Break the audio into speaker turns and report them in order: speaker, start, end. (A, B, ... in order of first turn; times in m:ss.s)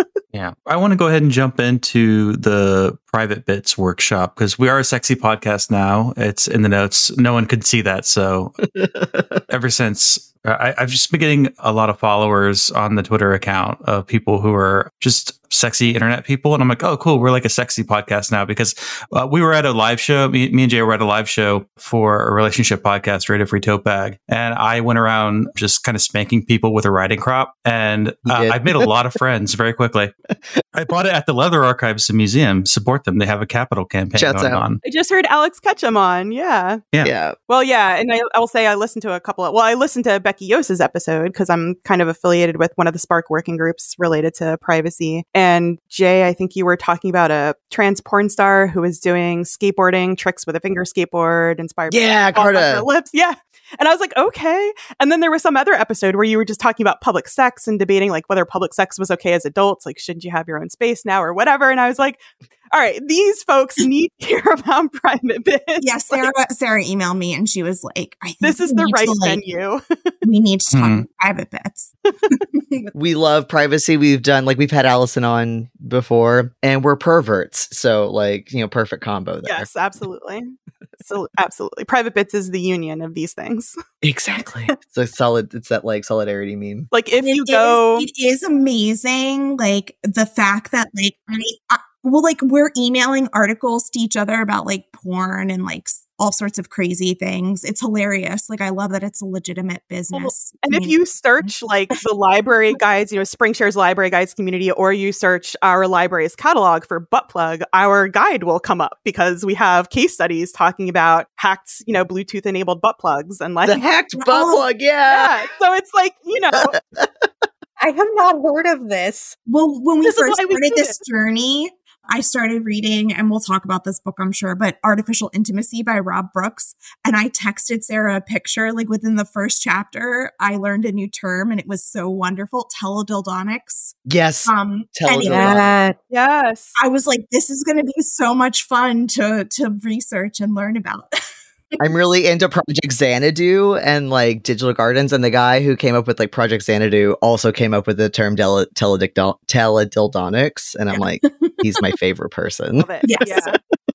0:00.3-0:08.5 A
0:08.7-0:09.4 B
0:09.5-0:30.1 A
0:28.3-0:28.9 B
0:30.7-0:34.8 A
0:34.2-0:34.6 B
0:34.8-0:36.8 C
0:37.0-0:37.4 B
0:37.5-1:02.2 C
0:51.9-0:52.8 B
1:02.7-1:06.3 C
1:05.8-1:09.4 D
1:08.4-1:09.8 C
1:10.2-1:12.9 D
1:10.7-1:11.0 A
1:12.9-1:19.7 B
1:19.4-1:23.8 C
1:24.0-1:26.9 B
1:26.9-1:28.1 C
1:27.2-1:41.5 D
1:40.1-1:53.8 C
1:53.6-1:55.3 B
1:54.2-1:54.6 D
1:55.1-1:56.7 C
1:56.5-1:57.1 B
1:57.8-1:59.4 E
1:59.5-2:15.8 D
2:00.0-2:01.0 C
2:14.0-2:15.7 B
2:15.2-2:16.0 E
2:16.1-2:16.8 C
2:16.7-2:21.1 D
2:21.8-2:33.5 B
2:30.9-2:31.5 D
2:32.7-2:33.5 C
2:33.0-2:33.6 D